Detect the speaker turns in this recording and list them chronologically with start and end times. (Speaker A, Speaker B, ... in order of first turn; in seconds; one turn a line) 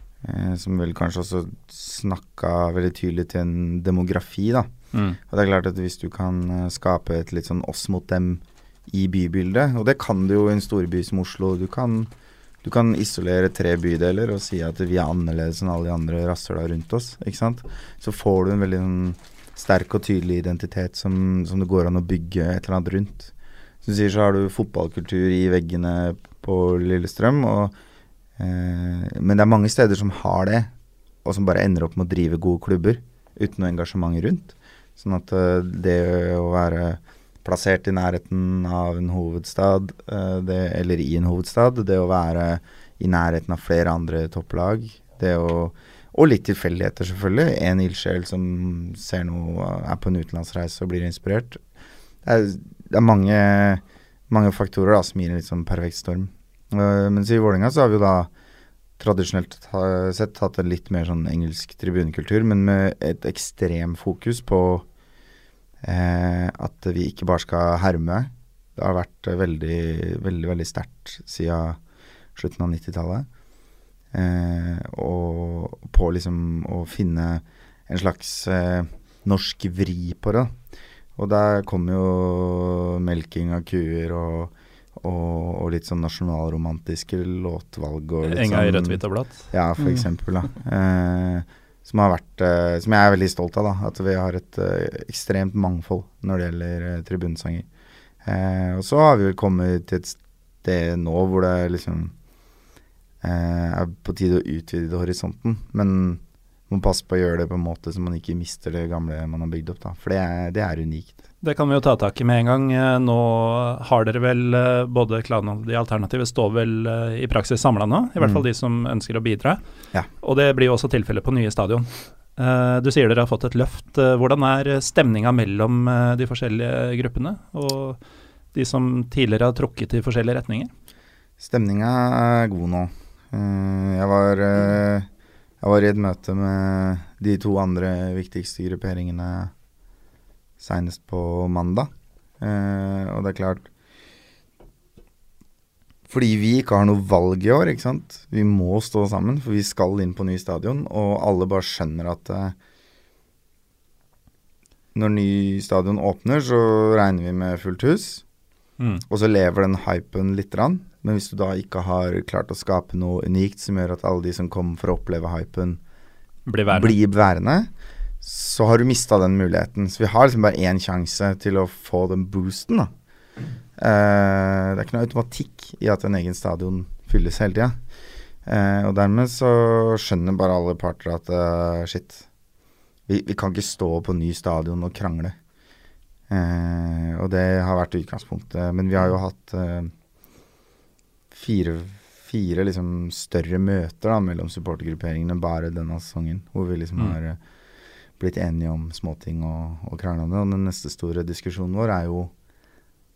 Speaker A: 0.2-4.7
Speaker B: 4.9-5.2
Speaker A: 5.3-12.1
Speaker A: 12.6-23.3
Speaker A: 23.8-27.7
Speaker A: 28.4-30.7
Speaker A: 31.2-51.6
Speaker A: 52.2-58.3
Speaker A: 59.0-64.8
Speaker A: 65.8-71.8
Speaker A: 72.3-73.3
Speaker A: 74.1-80.5
Speaker A: 81.2-97.7
Speaker B: 88.2-89.4
Speaker A: 98.2-102.1
Speaker A: 103.2-111.2
Speaker B: 111.4-119.6
Speaker B: 120.2-128.0
Speaker B: 128.5-130.7
Speaker A: 131.4-135.1
Speaker A: 135.6-139.5
Speaker A: 140.6-143.7
Speaker A: 146.1-152.6
Speaker A: 154.9-158.2
Speaker A: 159.1-165.8
Speaker B: 166.5-166.9
Speaker A: 166.7-167.7
Speaker A: 168.2-172.9
Speaker A: 173.8-177.8
Speaker A: 178.4-182.2
Speaker A: 183.1-185.3
Speaker A: 186.3-189.9
Speaker A: 191.3-197.4
Speaker A: 198.2-202.3